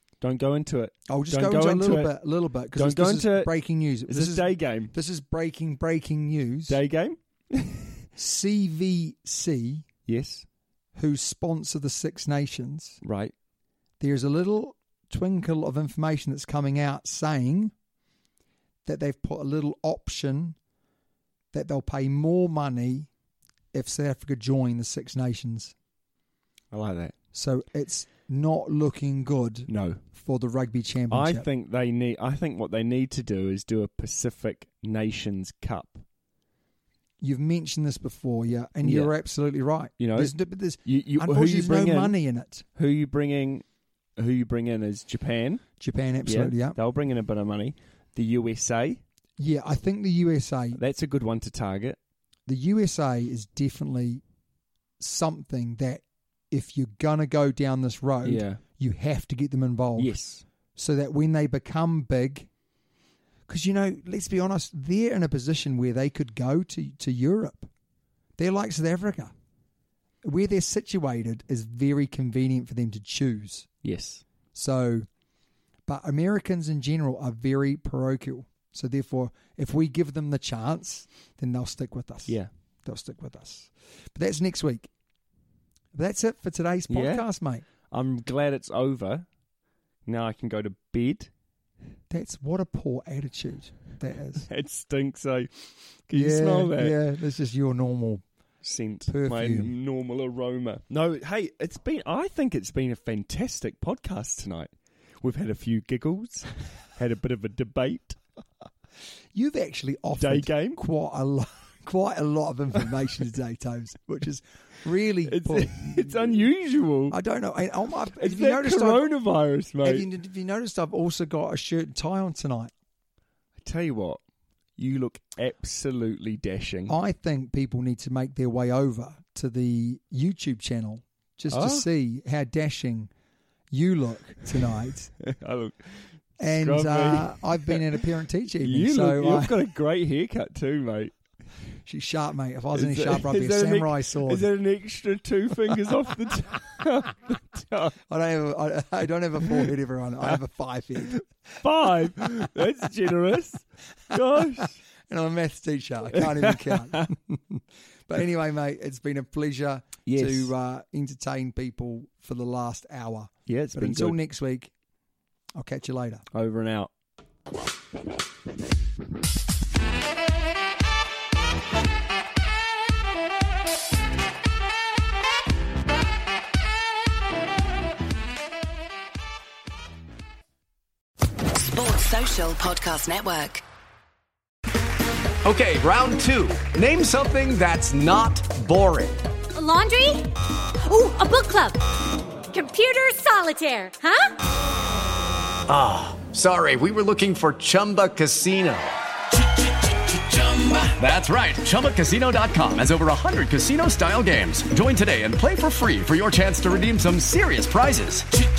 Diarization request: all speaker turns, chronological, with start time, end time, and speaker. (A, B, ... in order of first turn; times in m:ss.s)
0:00.2-0:02.2 A
0:01.1-0:06.8 B
0:02.7-0:03.5 A
0:04.1-0:04.9 A
0:06.7-0:08.1 A
0:08.2-0:09.8 B
0:10.0-0:10.4 A
0:11.0-0:13.0 B
0:13.0-0:13.3 A
0:14.0-0:17.7 B
0:18.8-0:20.6 B
0:21.5-0:23.1 B
0:23.7-0:25.7 B
0:26.7-0:27.1 A
0:27.3-0:31.5 B
0:29.7-0:30.0 A
0:31.1-0:36.0 A
0:37.2-0:42.6 B
0:38.8-0:39.1 A
0:40.0-0:42.2 A
0:42.8-0:43.6 A
0:44.2-0:45.7 A
0:45.8-0:46.8 B
0:46.2-0:49.0 A
0:49.4-0:50.8 B
0:50.7-0:52.0 A
0:52.5-0:54.2 B
0:55.0-1:00.1 B
0:58.2-0:58.6 A
1:00.0-1:00.4 A
1:00.8-1:02.5 B
1:03.5-1:07.7 B
1:08.4-1:09.3 B
1:10.2-1:13.7 B
1:13.8-1:14.2 A
1:14.5-1:15.1 B
1:15.9-1:24.9 B
1:25.9-1:27.6 B
1:26.9-1:27.2 A
1:27.9-1:29.3 A
1:30.0-1:31.3 A
1:32.1-1:34.5 B
1:34.5-1:37.0 A
1:36.1-1:38.2 B
1:38.6-1:44.7 A
1:39.1-1:39.7 B
1:45.2-1:48.2 A
1:49.3-1:56.4 B
1:50.2-1:50.8 A
1:55.3-1:57.2 A
1:57.1-1:59.1 B
1:58.2-2:00.1 A
1:59.8-2:02.7 B
2:03.6-2:04.2 A
2:04.8-2:06.9 A
2:06.9-2:13.1 B
2:11.5-2:11.9 A
2:13.7-2:15.1 B
2:15.2-2:18.0 A
2:16.4-2:19.6 B
2:18.6-2:21.1 A
2:21.8-2:24.5 B
2:22.7-2:28.0 A
2:28.1-2:31.2 B
2:31.6-2:34.8 A
2:35.0-2:44.7 B
2:36.2-2:37.0 A
2:40.0-2:40.5 A
2:43.5-2:44.2 A
2:45.6-2:46.2 B
2:46.3-2:46.9 A
3:01.5-3:03.6 C
3:05.4-3:09.2 D
3:09.5-3:11.8 E
3:12.5-3:14.3 E
3:15.7-3:19.0 D
3:20.1-3:28.4 D